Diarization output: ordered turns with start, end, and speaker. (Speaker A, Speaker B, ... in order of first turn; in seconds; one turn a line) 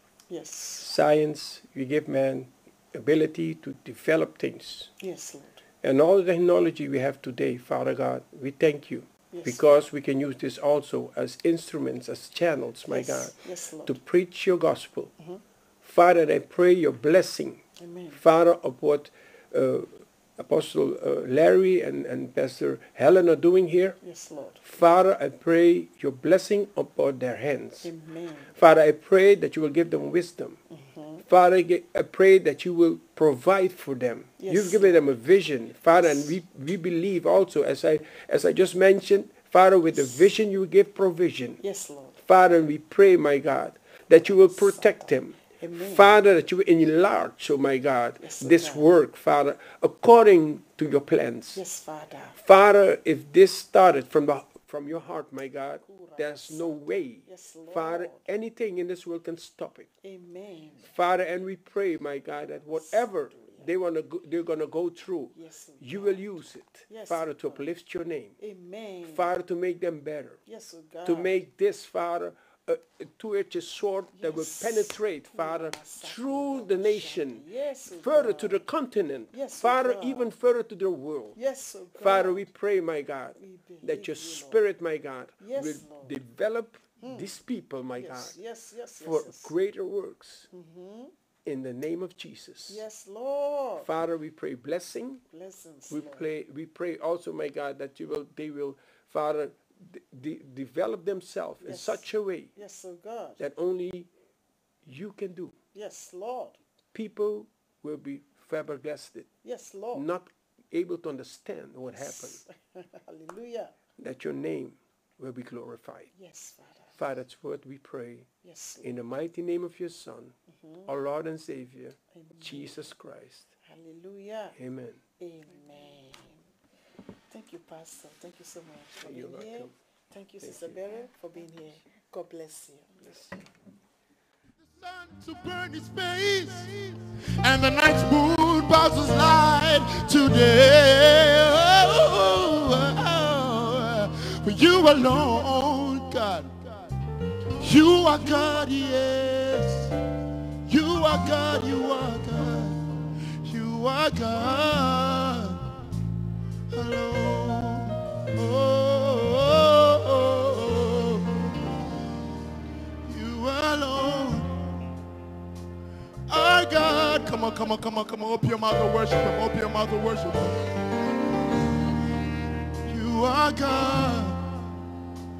Speaker A: 0.3-0.9
Speaker B: 0.8-4.9
Speaker A: 5.0-5.6
Speaker B: 5.8-15.1
Speaker A: 9.3-9.6
Speaker A: 12.9-14.0
Speaker B: 15.8-24.0
Speaker A: 17.8-18.2
Speaker A: 24.0-24.6
Speaker B: 24.6-27.9
Speaker A: 27.8-28.5
Speaker B: 28.5-30.6
Speaker A: 30.7-31.2
Speaker B: 31.2-41.6
Speaker A: 34.4-35.0
Speaker A: 35.9-36.3
Speaker A: 41.6-42.2
Speaker B: 42.2-51.6
Speaker A: 44.2-46.1
Speaker A: 48.2-48.8
Speaker A: 51.5-52.4
Speaker B: 52.4-59.9
Speaker A: 55.8-58.2
Speaker A: 60.0-60.9
Speaker B: 60.9-68.4
Speaker A: 62.7-63.7
Speaker A: 65.3-66.2
Speaker A: 66.9-67.6
Speaker A: 68.4-69.3
Speaker B: 69.0-70.4
Speaker A: 70.5-71.3
Speaker B: 71.0-81.4
Speaker A: 74.2-78.6
Speaker A: 79.3-80.3
Speaker A: 81.3-82.5
Speaker B: 82.0-88.3
Speaker A: 83.4-84.6
Speaker A: 85.4-86.2
Speaker A: 87.0-87.3
Speaker A: 88.0-89.5
Speaker B: 89.0-90.5
Speaker A: 90.5-91.1
Speaker B: 91.5-92.8
Speaker A: 92.7-93.9
Speaker B: 93.8-95.2
Speaker A: 95.3-96.3
Speaker B: 95.9-102.5
Speaker A: 101.6-102.0
Speaker A: 102.5-103.4
Speaker B: 103.4-104.1
Speaker B: 104.8-105.6
Speaker A: 105.7-106.6
Speaker B: 106.9-109.3
Speaker A: 109.4-110.0
Speaker B: 109.9-112.4
Speaker A: 111.9-113.7
Speaker B: 114.0-116.1
Speaker A: 116.1-117.0
Speaker B: 117.0-118.3
Speaker A: 118.4-118.9
Speaker B: 118.8-123.5
Speaker A: 120.5-120.9
Speaker A: 122.1-122.8
Speaker A: 123.6-124.5
Speaker B: 124.5-125.0
Speaker A: 125.2-126.4
Speaker A: 127.3-133.3
Speaker B: 129.0-129.7
Speaker B: 130.4-130.8
Speaker C: 134.6-146.6
Speaker C: 147.6-149.9
Speaker C: 150.7-152.8
Speaker C: 153.4-155.6
Speaker C: 156.7-161.4
Speaker C: 163.0-164.6
Speaker C: 166.3-170.6
Speaker C: 172.8-174.4